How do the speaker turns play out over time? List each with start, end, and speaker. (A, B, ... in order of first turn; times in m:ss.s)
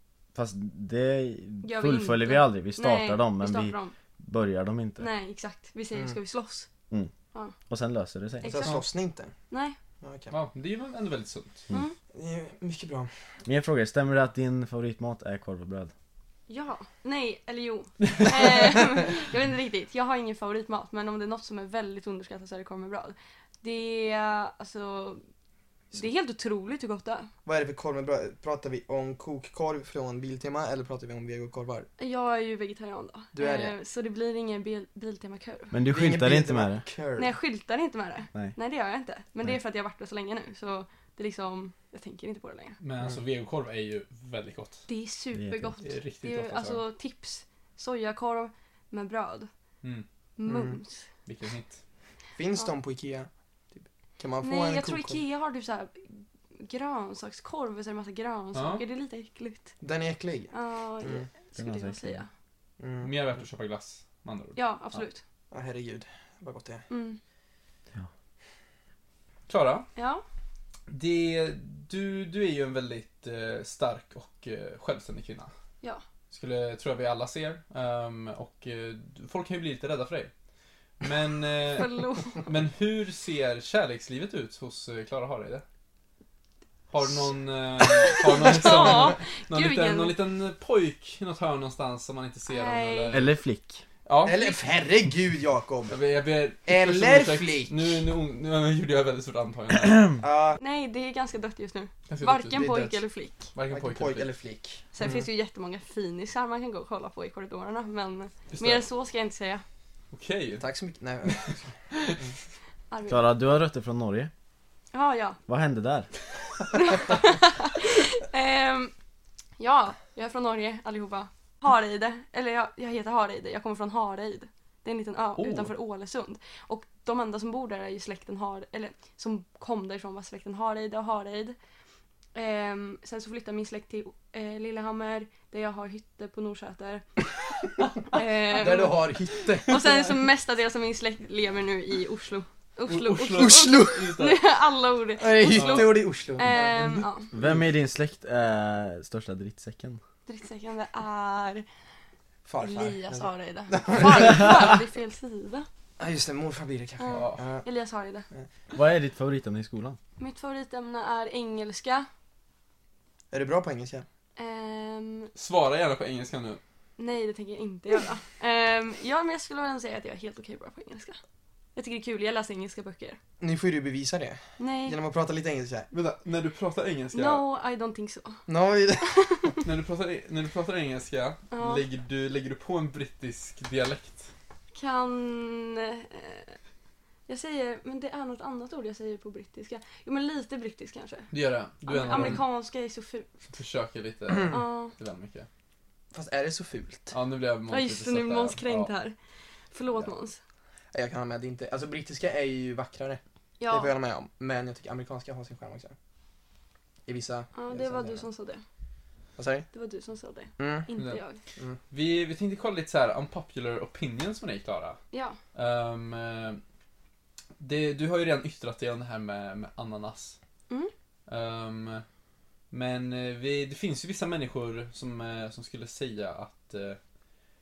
0:00.3-0:05.1 A
0:01.6-0:03.9 B
0:05.0-0:06.7 B
0:07.7-0:08.7 A
0:08.4-0:08.8 B
0:08.4-0:09.3 C
0:09.5-0:09.8 B
0:10.0-0:10.3 C
0:10.3-0:11.6 D
0:12.1-0:13.1 C
0:13.4-0:15.9 A
0:16.5-0:25.2 B
0:25.9-0:27.3 B
0:27.4-0:31.9 C
0:32.0-0:35.8 B
0:33.3-0:33.7 C
0:35.7-0:36.8 A
0:35.9-0:37.3 C
0:37.2-0:42.8 B
0:42.8-0:44.8 D
0:44.9-0:49.5 B
0:45.3-0:45.8 A
0:45.8-0:46.8 D
0:50.4-0:51.0 B
0:50.4-0:50.8 C
0:51.2-0:51.8 D
0:52.4-0:55.2 C
0:54.4-0:59.7 B
0:58.5-0:58.8 D
0:59.8-1:01.3 C
1:00.5-1:02.3 B
1:01.6-1:02.2 A
1:02.8-1:03.1 C
1:03.0-1:04.6 D
1:04.6-1:05.2 B
1:05.5-1:06.8 C
1:06.9-1:07.2 B
1:09.5-1:09.9 D
1:10.0-1:10.2 B
1:10.9-1:15.5 D
1:16.3-1:20.3 D
1:21.0-1:25.6 D
1:21.7-1:22.4 B
1:26.9-1:33.3 D
1:27.8-1:30.1 B
1:28.6-1:28.9 C
1:32.5-1:33.2 B
1:33.1-1:33.8 A
1:34.0-1:34.4 D
1:34.2-1:36.0 C
1:35.9-1:40.2 D
1:36.6-1:38.0 C
1:40.2-1:40.6 C
1:40.6-1:43.5 B
1:42.1-1:42.8 D
1:42.5-1:43.0 C
1:43.5-1:44.3 D
1:43.7-1:45.2 C
1:44.9-1:49.6 B
1:48.5-1:48.8 D
1:50.1-1:50.6 D
1:50.6-1:52.3 C
1:51.3-1:52.2 D
1:52.9-1:53.2 B
1:53.1-1:54.3 A
1:54.9-1:55.4 B
1:55.5-1:56.1 A
1:56.7-1:58.9 B
1:59.6-2:11.6 B
2:05.4-2:05.7 D
2:12.3-2:17.1 B
2:18.1-2:19.1 B
2:18.5-2:20.1 C
2:19.6-2:27.3 B
2:22.9-2:24.5 D
2:23.3-2:24.1 C
2:25.2-2:27.0 C
2:25.5-2:27.6 D
2:27.3-2:30.0 A
2:30.3-2:31.6 B
2:32.4-2:34.8 C
2:32.6-2:35.7 B
2:36.0-2:37.6 C
2:37.0-2:38.3 B
2:37.1-2:37.4 D
2:38.7-2:40.0 A
2:40.2-2:42.1 B
2:43.3-2:44.0 C
2:44.4-2:45.3 B
2:45.3-2:46.6 D
2:47.0-2:51.2 B
2:51.7-2:53.2 B
2:53.4-2:55.9 C
2:54.6-2:55.0 B
2:55.9-2:57.4 D
2:57.1-2:58.4 B
2:58.5-2:59.5 C
2:59.0-2:59.6 B
2:59.6-3:04.3 D
3:01.5-3:01.8 B
3:04.7-3:06.6 B
3:07.3-3:11.3 B
3:11.3-3:12.4 D
3:11.8-3:13.3 B
3:12.1-3:12.4 C
3:13.5-3:15.5 D
3:14.5-3:14.9 B
3:16.1-3:17.1 C
3:17.1-3:18.9 D
3:17.7-3:19.1 B
3:19.7-3:20.4 B
3:20.9-3:25.9 C
3:23.6-3:23.9 B
3:27.0-3:28.2 C
3:27.5-3:28.6 B
3:29.4-3:29.7 C
3:29.7-3:31.4 B
3:30.6-3:30.9 C
3:31.9-3:35.0 D
3:35.1-3:35.4 B
3:35.5-3:36.6 D
3:37.6-3:40.4 D
3:41.3-3:42.0 D
3:42.7-3:47.0 D